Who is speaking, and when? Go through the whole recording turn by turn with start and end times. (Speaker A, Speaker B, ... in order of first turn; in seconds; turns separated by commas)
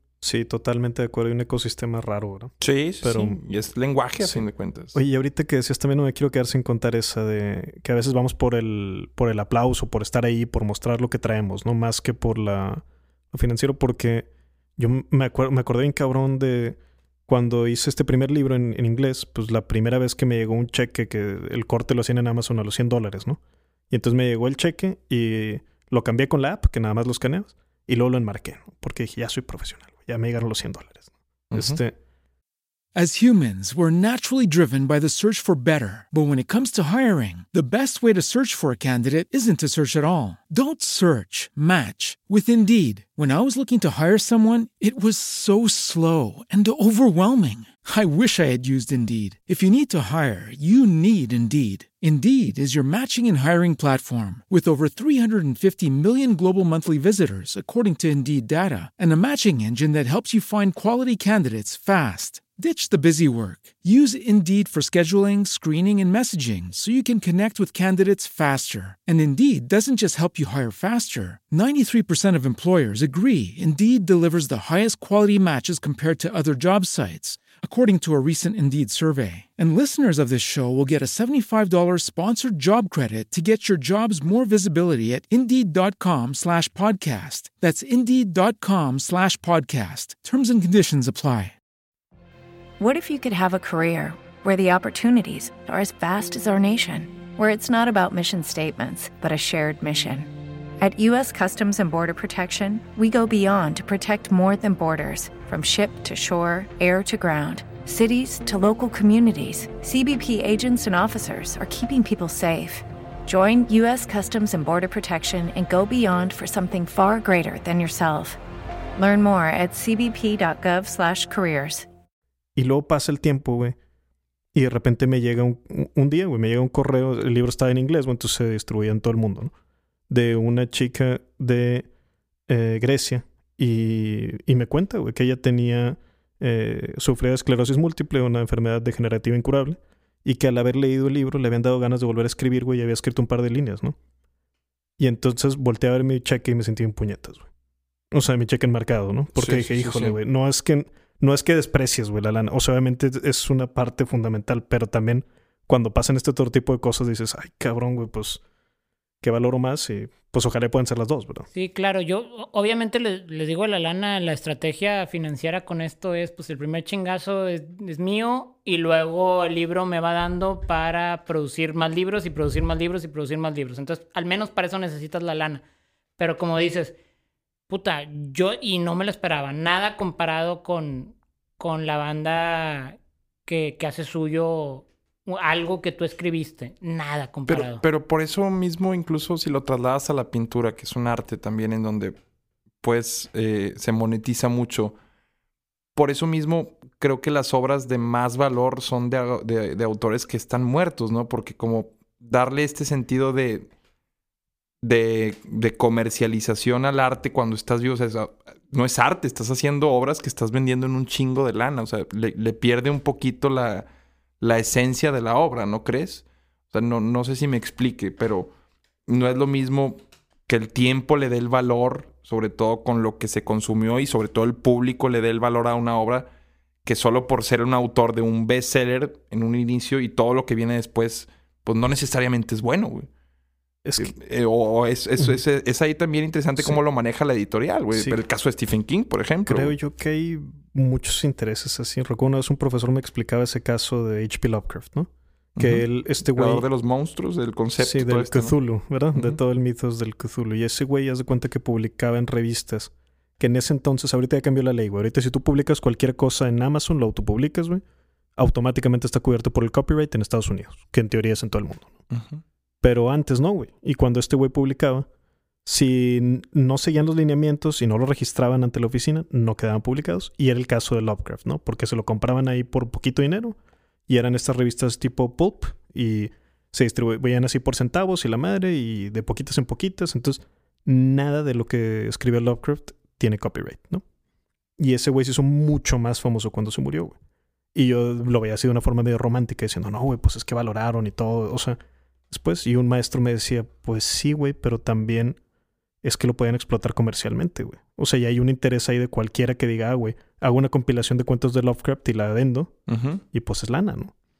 Speaker A: 0.2-3.4, Speaker B: 2.6-5.0, Speaker A: 4.2-23.4, Speaker A: 23.9-31.9, Speaker B: 31.5-31.8, Speaker C: 33.0-91.5, Speaker D: 92.8-118.4, Speaker D: 119.0-121.9, Speaker A: 122.6-123.8, Speaker A: 124.5-129.5, Speaker A: 130.1-131.9, Speaker A: 132.5-144.0, Speaker A: 145.0-147.5, Speaker A: 148.1-158.4, Speaker B: 149.4-150.2, Speaker A: 159.2-161.5, Speaker E: 161.5-175.6, Speaker E: 176.2-176.9, Speaker E: 177.7-187.8, Speaker B: 187.5-192.2, Speaker B: 192.8-194.9, Speaker B: 195.9-203.7, Speaker B: 204.8-213.9, Speaker B: 214.4-218.5, Speaker B: 219.1-226.3, Speaker B: 226.8-233.1, Speaker A: 233.8-234.1, Speaker B: 234.0-239.7, Speaker A: 239.5-246.7, Speaker B: 245.6-248.6, Speaker A: 247.8-257.8, Speaker A: 258.4-262.0, Speaker B: 262.1-262.4, Speaker A: 262.8-265.1, Speaker A: 265.6-273.6, Speaker A: 274.1-284.0, Speaker A: 284.8-287.1, Speaker A: 287.7-291.8, Speaker A: 292.3-295.4, Speaker A: 296.0-302.8, Speaker B: 302.9-303.2, Speaker A: 303.3-304.1